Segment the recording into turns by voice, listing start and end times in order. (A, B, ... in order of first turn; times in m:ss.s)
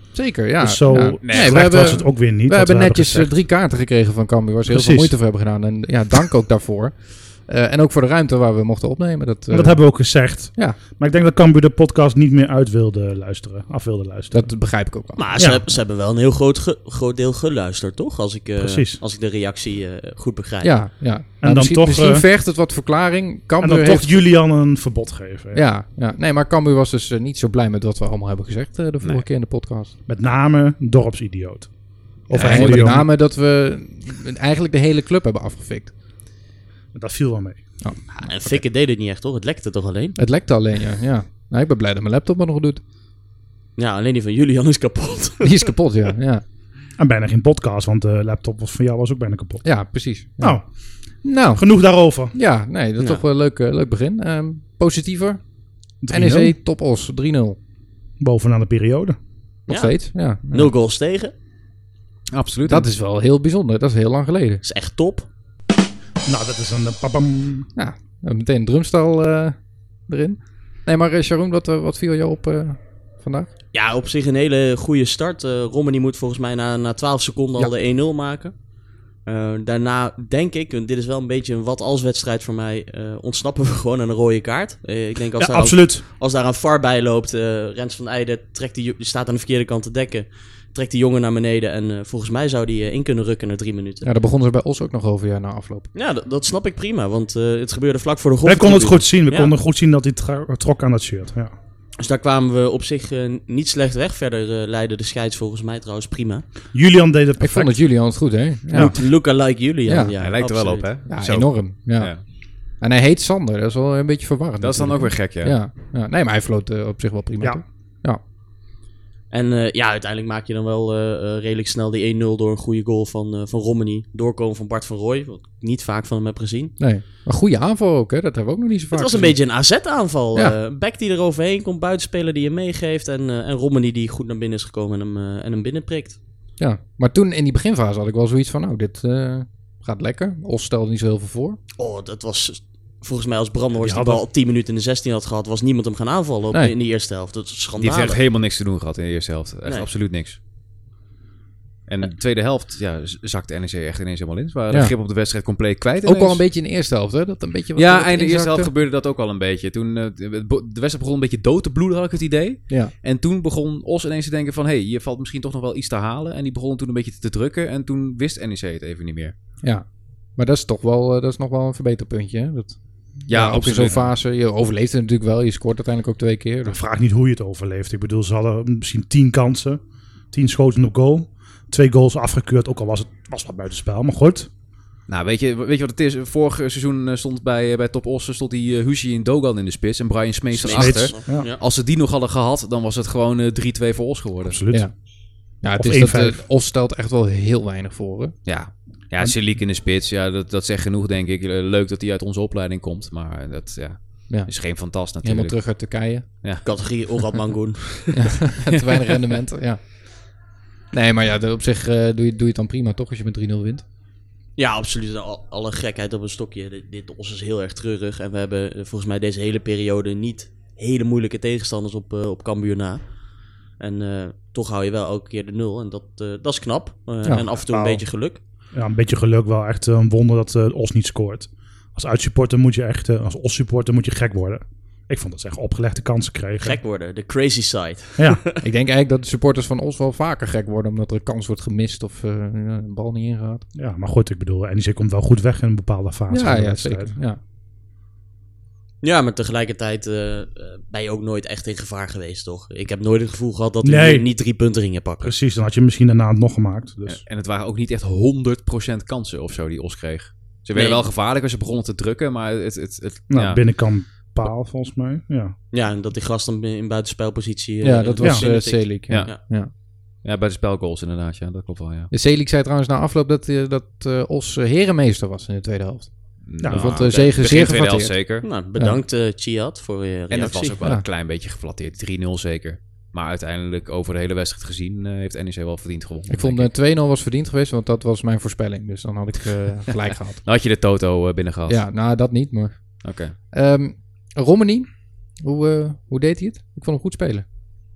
0:00.1-0:10.8 A
0:00.6-0:03.3 B
0:01.2-0:01.8 C
0:04.7-0:05.2 B
0:09.5-0:14.6 B
0:14.3-0:15.3 A
0:15.2-0:20.9 D
0:15.4-0:15.6 B
0:18.6-0:19.0 B
0:20.6-0:24.2 A
0:21.4-0:22.2 B
0:23.6-0:25.6 B
0:25.5-0:29.9 A
0:29.0-0:29.3 C
0:30.1-0:31.7 B
0:32.3-0:33.1 B
0:32.3-0:35.9 A
0:36.9-0:37.6 B
0:37.8-0:38.6 A
0:38.2-0:40.2 D
0:40.2-0:42.8 A
0:43.8-0:45.7 D
0:45.4-0:46.4 A
0:47.0-0:49.6 B
0:49.6-0:51.6 A
0:50.4-0:52.4 B
0:52.3-0:55.4 A
0:56.0-0:56.5 B
0:56.1-0:57.6 A
0:58.2-0:59.2 B
0:59.7-1:01.3 D
0:59.7-1:00.7 A
1:02.3-1:02.9 C
1:02.7-1:04.6 A
1:04.6-1:05.3 D
1:06.3-1:07.7 B
1:07.8-1:13.5 A
1:13.7-1:18.6 D
1:19.2-1:34.1 D
1:25.4-1:26.0 B
1:34.0-1:35.9 A
1:36.0-1:39.5 D
1:38.4-1:41.5 B
1:42.0-1:46.5 D
1:46.7-1:48.0 B
1:47.4-1:49.2 A
1:48.7-1:49.0 B
1:48.8-1:50.9 D
1:49.9-1:50.1 A
1:50.2-1:52.2 C
1:51.1-1:58.2 A
1:54.6-1:55.6 C
1:59.3-2:06.8 D
2:06.8-2:09.4 A
2:08.9-2:16.2 D
2:16.6-2:21.6 A
2:21.8-2:28.2 D
2:23.8-2:24.2 B
2:27.8-2:30.4 C
2:31.9-2:36.4 C
2:36.0-2:38.7 A
2:37.8-2:49.3 C
2:49.6-2:56.8 A
2:53.3-2:54.0 C
2:56.7-3:04.5 B
3:05.1-3:14.6 C
3:10.5-3:11.6 D
3:10.7-3:11.5 B
3:14.4-3:14.9 B
3:14.7-3:18.4 A
3:15.8-3:16.4 B
3:18.5-3:25.6 C
3:24.3-3:26.3 A
3:26.6-3:28.4 D
3:28.1-3:30.1 A
3:28.7-3:29.2 C
3:30.9-3:33.8 A
3:34.6-3:43.0 D
3:43.8-3:48.4 D
3:47.7-3:48.0 B
3:48.7-3:56.8 B
3:56.6-3:58.6 D
3:58.6-4:03.6 A
4:03.8-4:07.2 B
4:06.3-4:07.4 A
4:09.0-4:15.3 D
4:13.8-4:14.3 B
4:15.2-4:17.2 B
4:17.1-4:23.6 C
4:20.8-4:21.0 D
4:23.3-4:25.6 B
4:25.7-4:29.4 D
4:27.8-4:29.7 A
4:28.2-4:28.5 B
4:29.1-4:29.5 C
4:30.2-4:32.1 C
4:32.1-4:39.0 A
4:36.4-4:38.5 C
4:36.6-4:37.0 B
4:37.0-4:37.3 D
4:38.4-4:40.8 D
4:40.3-4:46.7 C
4:46.3-4:50.4 A
4:50.4-4:51.8 C
4:51.7-4:57.4 A
4:53.0-4:53.4 C